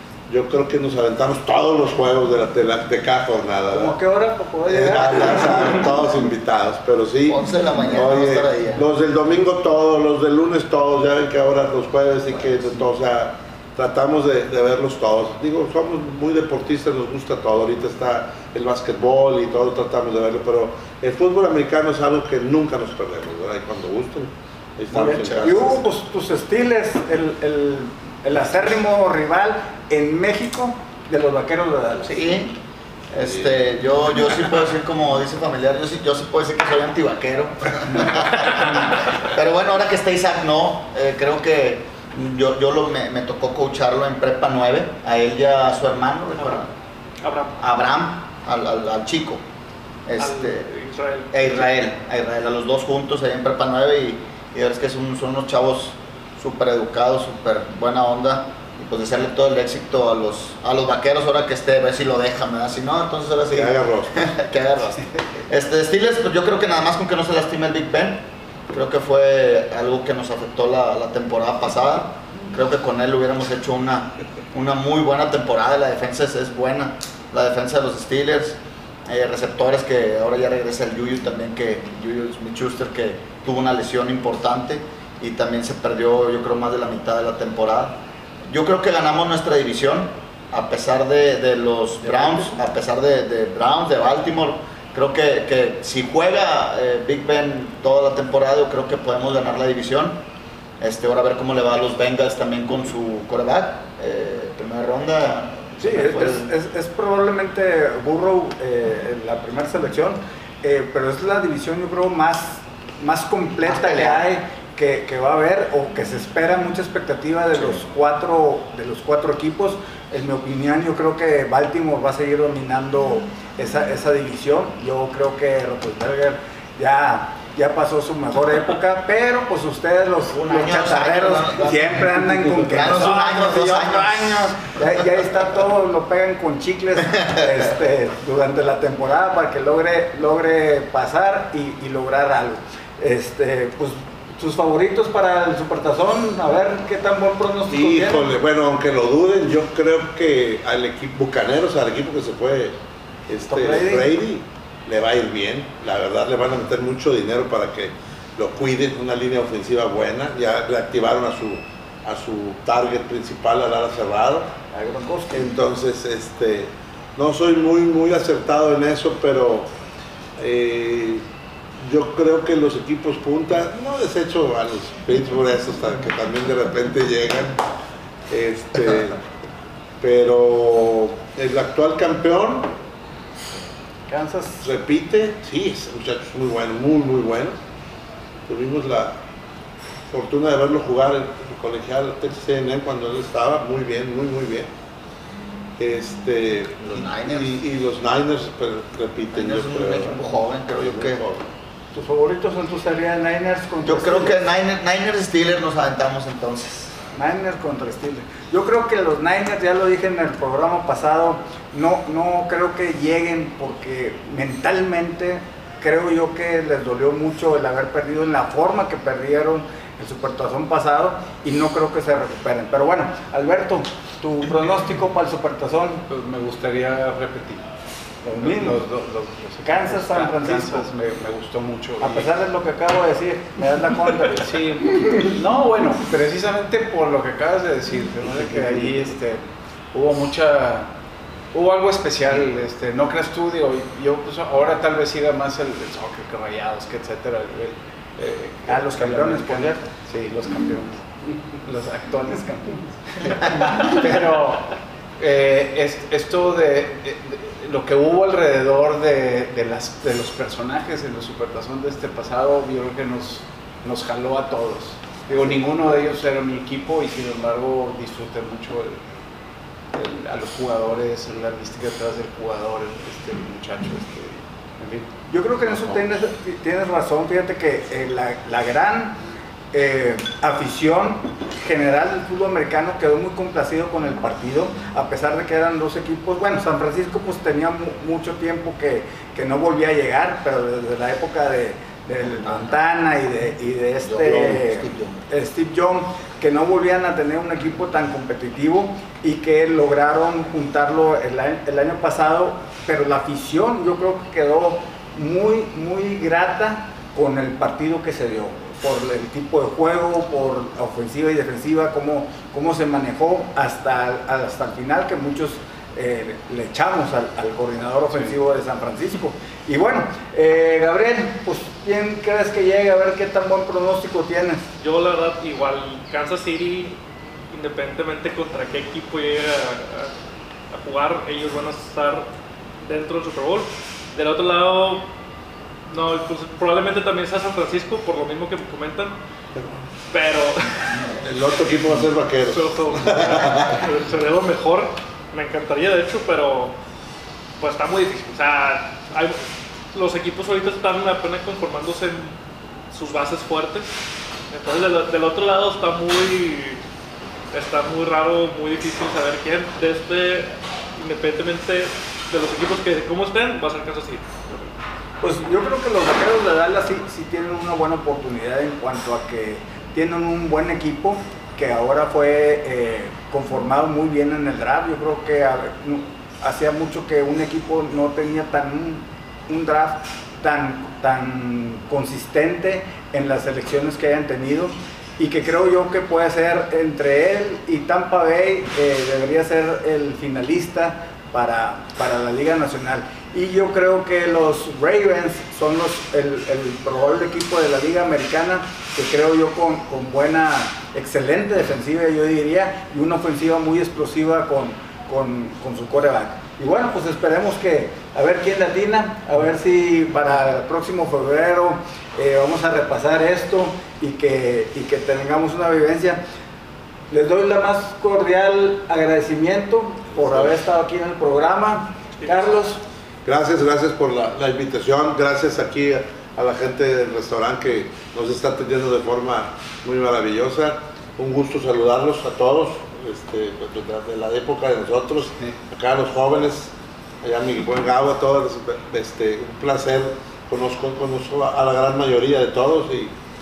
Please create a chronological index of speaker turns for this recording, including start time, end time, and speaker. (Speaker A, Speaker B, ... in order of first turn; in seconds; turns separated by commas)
Speaker A: 0.3-4.0, Speaker B: 3.7-5.9, Speaker A: 4.7-25.8, Speaker C: 7.3-8.8, Speaker B: 24.9-32.1, Speaker C: 32.0-32.5, Speaker C: 33.1-46.7, Speaker A: 33.2-33.6, Speaker D: 47.2-47.6, Speaker C: 47.6-49.4, Speaker C: 50.1-50.7, Speaker D: 50.2-51.7, Speaker C: 51.3-88.0, Speaker A: 63.5-64.3, Speaker C: 88.5-100.2, Speaker C: 100.8-106.5, Speaker B: 105.8-148.3, Speaker C: 113.6-114.2, Speaker C: 117.5-117.8, Speaker C: 130.3-135.0, Speaker A: 147.7-152.7, Speaker A: 153.3-164.5, Speaker B: 153.5-154.1, Speaker B: 164.7-165.5, Speaker A: 165.3-169.7, Speaker A: 170.4-171.2, Speaker A: 171.8-177.6, Speaker A: 178.3-179.2, Speaker A: 180.0-182.7, Speaker B: 184.1-184.6, Speaker A: 184.6-187.6, Speaker A: 188.5-189.2, Speaker A: 190.1-194.7, Speaker A: 195.8-200.3, Speaker C: 196.8-197.6, Speaker C: 199.3-201.2, Speaker A: 200.8-201.5, Speaker B: 201.9-204.4, Speaker C: 203.8-207.0, Speaker B: 207.1-226.0, Speaker E: 226.1-227.6, Speaker B: 228.2-228.8, Speaker E: 228.3-232.3, Speaker B: 229.6-230.9, Speaker B: 232.0-234.4, Speaker E: 234.2-239.4, Speaker E: 239.9-240.9, Speaker E: 241.5-269.0, Speaker B: 248.7-249.8, Speaker E: 269.9-275.1, Speaker B: 275.3-279.2, Speaker E: 275.6-276.0, Speaker B: 279.7-324.6, Speaker C: 292.4-292.7, Speaker C: 294.0-295.2, Speaker D: 324.8-327.0, Speaker D: 327.5-330.1, Speaker D: 330.7-332.3, Speaker D: 332.8-335.1, Speaker D: 335.9-339.2, Speaker A: 339.6-339.9, Speaker D: 340.1-341.1, Speaker A: 341.2-343.8, Speaker D: 342.5-346.7, Speaker D: 347.6-349.4, Speaker D: 349.9-352.4, Speaker D: 352.9-354.0, Speaker D: 354.5-356.8, Speaker D: 357.5-364.6, Speaker B: 365.2-416.2, Speaker B: 417.1-422.8, Speaker A: 420.1-420.5, Speaker A: 423.2-443.1